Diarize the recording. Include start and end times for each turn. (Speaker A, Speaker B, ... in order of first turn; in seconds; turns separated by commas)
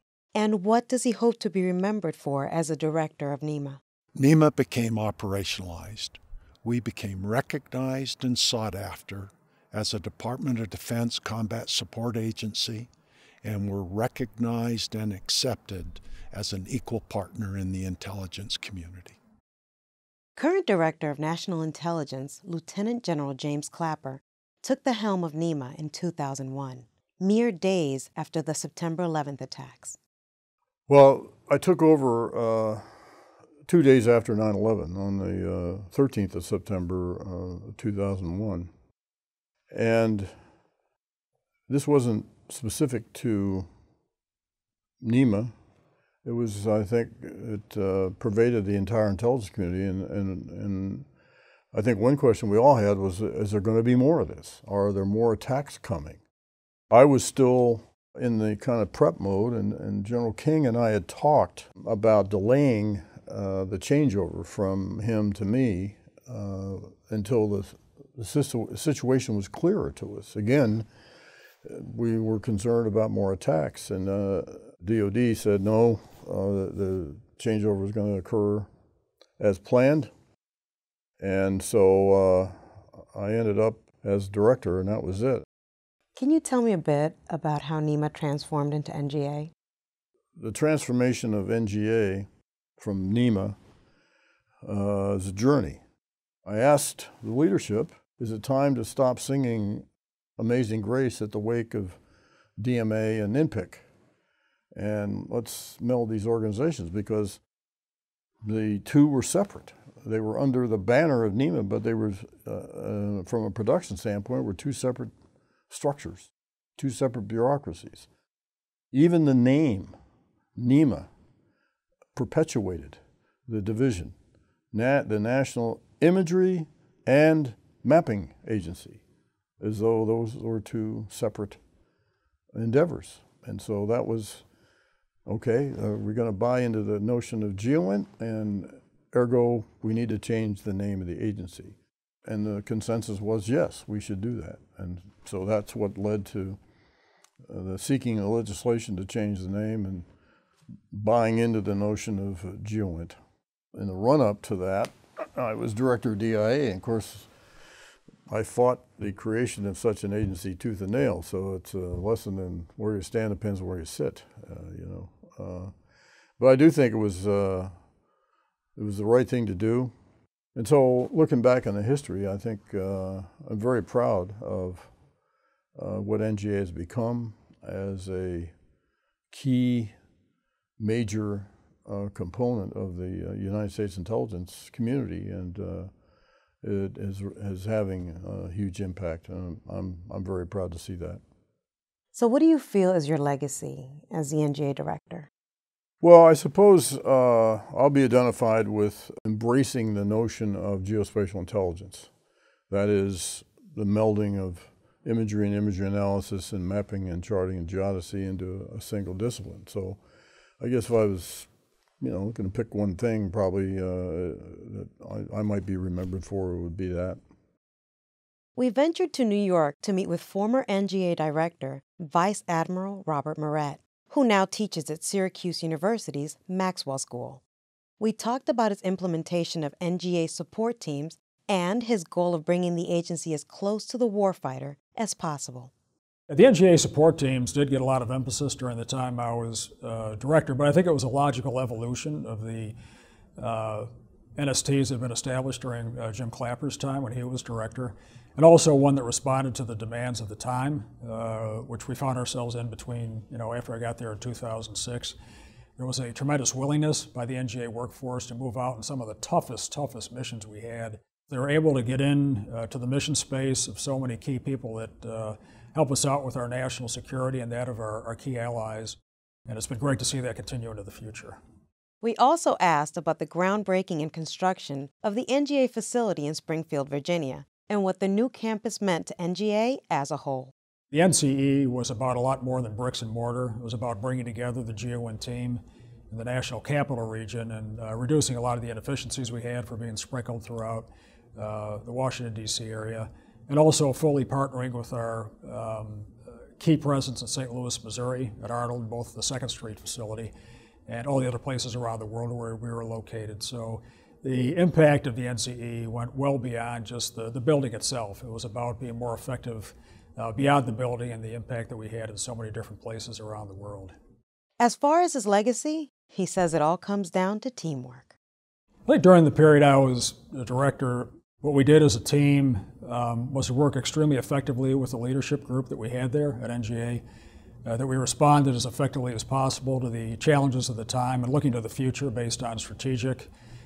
Speaker A: 0.3-3.8, Speaker B: 4.2-12.9, Speaker B: 13.4-19.2, Speaker A: 20.4-30.0, Speaker C: 30.9-32.9, Speaker C: 33.6-38.7, Speaker C: 39.7-40.3, Speaker C: 41.7-43.7, Speaker C: 45.0-45.5, Speaker C: 46.2-51.1, Speaker C: 51.7-56.2, Speaker C: 56.9-70.9, Speaker C: 71.6-78.7, Speaker C: 79.4-80.1, Speaker C: 81.2-85.4, Speaker A: 86.2-89.5, Speaker C: 90.4-92.3, Speaker C: 92.8-93.5, Speaker C: 94.6-95.8, Speaker C: 96.4-99.9, Speaker C: 100.4-102.0, Speaker C: 102.6-103.8, Speaker C: 104.7-107.4, Speaker C: 108.4-115.1, Speaker C: 115.7-118.1, Speaker C: 118.9-120.0, Speaker C: 120.5-121.1, Speaker C: 122.1-124.1, Speaker C: 124.7-129.0, Speaker C: 129.6-131.6, Speaker C: 132.5-134.4, Speaker C: 135.3-141.8, Speaker C: 142.3-146.6, Speaker C: 147.5-150.1, Speaker C: 150.9-153.2, Speaker C: 153.7-157.3, Speaker C: 158.3-165.7, Speaker C: 166.4-167.7, Speaker C: 168.8-169.9, Speaker C: 170.6-174.9, Speaker C: 175.8-178.5, Speaker C: 179.3-179.9, Speaker C: 180.8-185.9, Speaker C: 186.6-191.2, Speaker A: 192.1-195.3, Speaker C: 196.0-202.1, Speaker C: 202.7-210.0, Speaker C: 210.6-211.5, Speaker C: 212.0-217.2, Speaker A: 218.6-227.4, Speaker A: 228.0-235.7, Speaker D: 236.3-242.7, Speaker D: 243.4-255.1, Speaker D: 255.8-271.4, Speaker A: 272.0-280.5, Speaker D: 280.9-300.3, Speaker D: 300.9-313.9, Speaker A: 314.6-318.2, Speaker D: 318.9-327.0, Speaker D: 327.6-333.3